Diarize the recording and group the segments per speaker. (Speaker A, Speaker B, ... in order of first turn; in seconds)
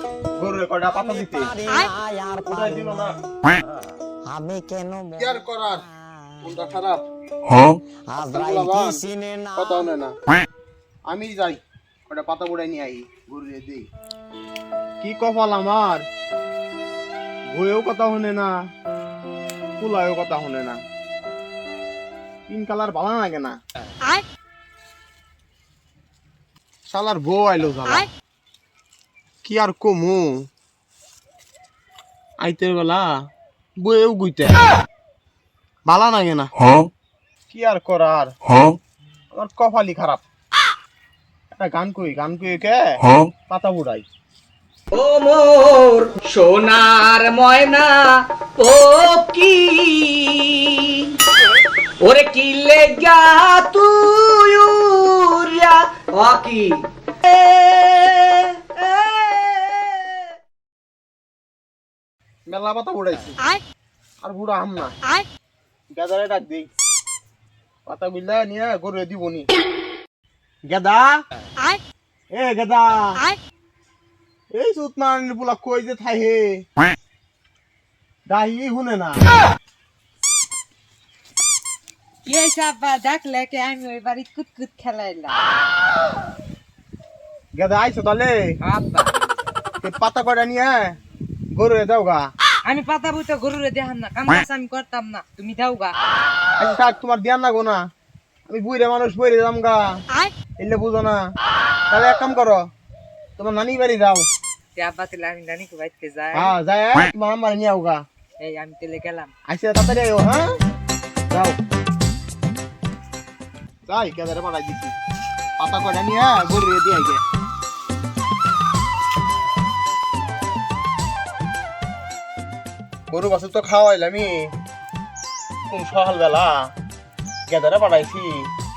Speaker A: 0.4-1.6, 2.5-3.2, 5.2-5.9, 6.4-7.0, 8.2-10.2, 11.1-13.9, 15.0-16.1, 17.5-18.6, 19.8-20.8, 22.5-23.6, 26.9-28.1, 29.4-30.5, 32.4-33.2, 33.8-34.6, 35.9-36.5, 37.5-38.4, 39.3-40.2, 41.5-44.1, 62.5-63.4, 64.2-64.9, 65.9-66.7, 67.9-69.5, 70.7-71.2, 72.3-73.3, 74.5-76.7, 78.3-79.2, 87.5-88.6, 89.8-91.0, 91.5-92.3, 96.6-97.9, 98.5-100.0, 100.6-101.3, 101.9-102.7, 103.4-104.3, 106.3-108.0, 109.5-110.5, 111.3-111.6, 113.9-115.0, 115.6-117.2, 123.1-124.5, 125.7-126.7, 127.5-128.5
Speaker B: 1.7-2.5, 4.3-5.2, 8.3-9.5
Speaker C: 45.0-47.9, 48.6-50.6, 52.0-56.8, 57.5-59.4
Speaker D: 82.2-85.4, 88.6-89.1, 92.7-96.0, 104.8-106.5, 108.4-109.3